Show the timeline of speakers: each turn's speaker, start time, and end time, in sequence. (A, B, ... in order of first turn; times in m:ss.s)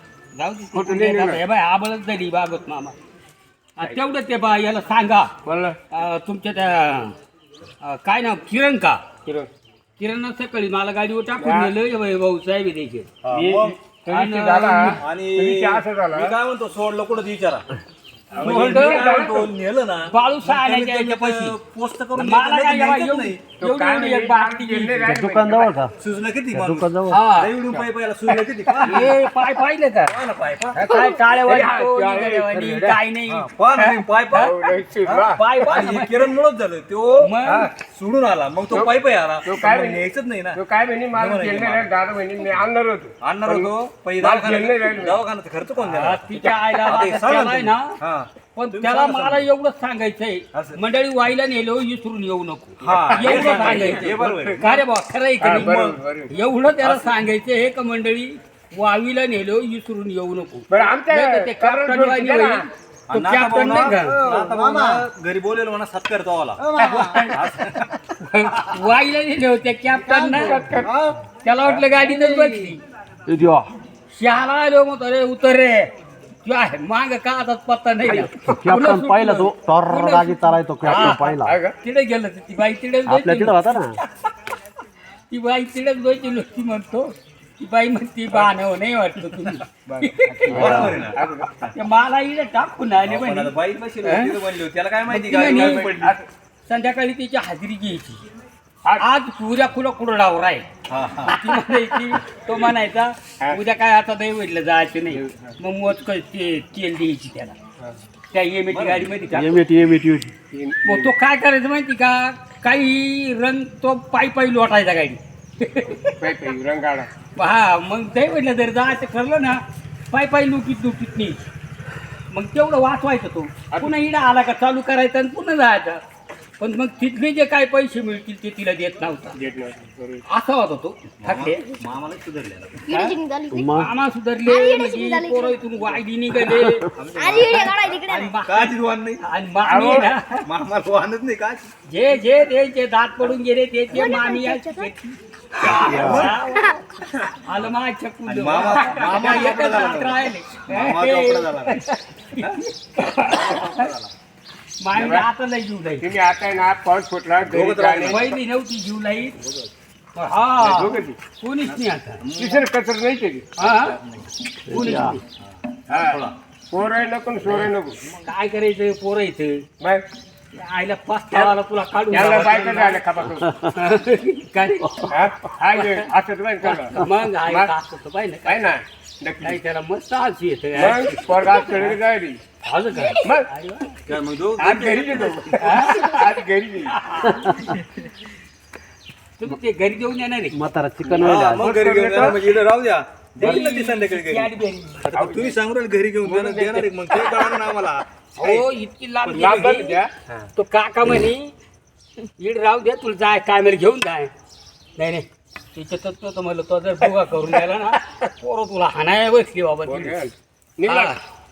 0:00.3-0:03.0 A
0:00.7-0:01.4 B
0:03.8-0:05.3 A
0:05.4-0:05.8 B
0:05.9-0:07.1 A
0:07.8-0:09.0 A
0:09.2-0:09.5 B
0:10.0-0:13.1 A
0:11.4-0:11.7 B
0:13.2-0:13.8 C
0:13.3-0:16.3 B
0:14.1-0:15.0 A
0:15.0-0:17.6 C
0:18.3-0:19.5 B
0:18.4-0:23.4 C
0:18.4-0:19.0 A
0:20.1-0:21.5 A
0:22.2-0:25.0 A
0:23.6-0:25.8 B
0:25.0-0:25.9 D
0:26.0-0:29.2 C
0:26.5-0:27.2 D
0:27.1-0:27.5 A
0:28.8-0:30.1 A
0:30.1-0:30.8 C
0:30.7-0:33.0 B
0:30.8-0:34.5 A
0:33.3-0:34.5 C
0:34.4-0:35.6 B
0:35.0-0:40.6 C
0:35.4-0:36.2 A
0:37.2-0:37.7 A
0:37.4-0:37.7 B
0:39.4-0:40.0 B
0:40.5-0:45.2 B
0:41.1-0:41.9 C
0:43.2-0:49.4 C
0:45.8-0:47.9 A
0:46.4-0:46.7 B
0:48.5-1:04.2 A
0:50.5-0:50.8 C
0:52.8-0:54.8 C
0:52.9-0:54.7 B
0:55.4-0:56.3 B
0:55.5-0:56.0 C
0:56.8-0:57.3 C
1:00.7-1:02.6 B
1:03.1-1:08.0 C
1:04.5-1:05.0 E
1:06.6-1:07.3 E
1:07.0-1:07.4 B
1:08.3-1:10.7 A
1:10.0-1:11.0 B
1:10.3-1:11.2 C
1:11.4-1:12.8 A
1:11.6-1:12.8 B
1:13.3-1:13.7 D
1:14.1-1:15.9 A
1:16.4-1:24.0 A
1:18.0-1:18.3 B
1:18.4-1:21.6 D
1:21.4-1:21.7 B
1:23.0-1:24.0 D
1:25.3-1:30.9 A
1:29.9-1:31.7 B
1:30.5-1:31.2 C
1:30.5-1:30.9 D
1:31.7-1:34.3 A
1:33.0-1:36.2 C
1:35.1-1:35.9 A
1:35.4-1:36.2 B
1:36.6-1:38.2 A
1:39.0-1:40.7 A
1:40.9-1:41.3 C
1:41.2-1:47.6 A
1:45.1-1:45.5 B
1:48.3-1:49.6 A
1:48.7-1:49.1 C
1:49.3-1:50.3 D
1:50.5-1:51.1 B
1:50.8-1:56.3 A
1:56.2-1:57.1 B
1:57.4-1:59.6 A
2:00.1-2:01.4 A
2:02.3-2:06.0 A
2:06.6-2:09.4 A
2:09.3-2:10.2 B
2:10.3-2:11.6 A
2:11.2-2:12.8 C
2:12.8-2:13.8 E
2:12.9-2:13.2 A
2:13.5-2:13.9 D
2:13.7-2:16.9 A
2:14.4-2:15.8 E
2:16.4-2:16.9 D
2:16.9-2:19.2 C
2:17.1-2:18.4 E
2:17.5-2:18.7 A
2:19.2-2:20.4 A
2:19.6-2:20.1 B
2:20.4-2:21.7 C
2:21.9-2:26.8 A
2:23.9-2:24.9 E
2:25.6-2:26.4 C
2:25.8-2:26.3 D
2:26.3-2:26.7 E
2:27.4-2:33.9 A
2:28.3-2:31.8 C
2:32.4-2:32.6 C
2:33.2-2:34.1 C
2:34.8-2:36.1 A
2:34.9-2:35.2 B
2:36.0-2:38.2 B
2:37.4-2:38.4 C
2:38.0-2:39.3 A
2:40.1-2:42.2 A
2:40.6-2:41.2 B
2:41.6-2:42.6 C
2:42.4-2:43.5 B
2:43.6-2:44.0 A
2:43.6-2:44.3 C
2:44.6-2:45.2 D
2:44.6-2:45.2 A
2:45.4-2:46.3 C
2:45.9-2:46.2 B
2:46.7-2:47.9 B
2:48.2-2:49.6 A
2:50.5-2:53.0 A
2:52.1-2:53.5 B
2:53.7-2:55.1 A
2:55.1-2:57.7 B
2:55.8-2:56.1 A
2:56.6-2:58.6 A
2:58.4-2:59.6 B
2:59.4-3:01.9 A
3:00.7-3:02.4 B
3:02.6-3:04.0 A
3:03.1-3:03.5 B
3:04.0-3:05.5 C
3:04.6-3:06.9 B
3:05.6-3:06.2 A
3:06.9-3:07.7 A
3:09.4-3:10.6 A
3:10.5-3:11.7 D
3:11.1-3:14.5 C
3:11.3-3:12.4 B
3:13.4-3:15.5 A
3:15.0-3:18.6 C
3:16.2-3:16.9 B
3:18.4-3:20.0 A
3:19.3-3:20.1 B
3:20.6-3:21.5 A
3:22.4-3:24.3 A
3:25.0-3:30.2 A
3:29.8-3:31.1 B
3:30.9-3:31.2 A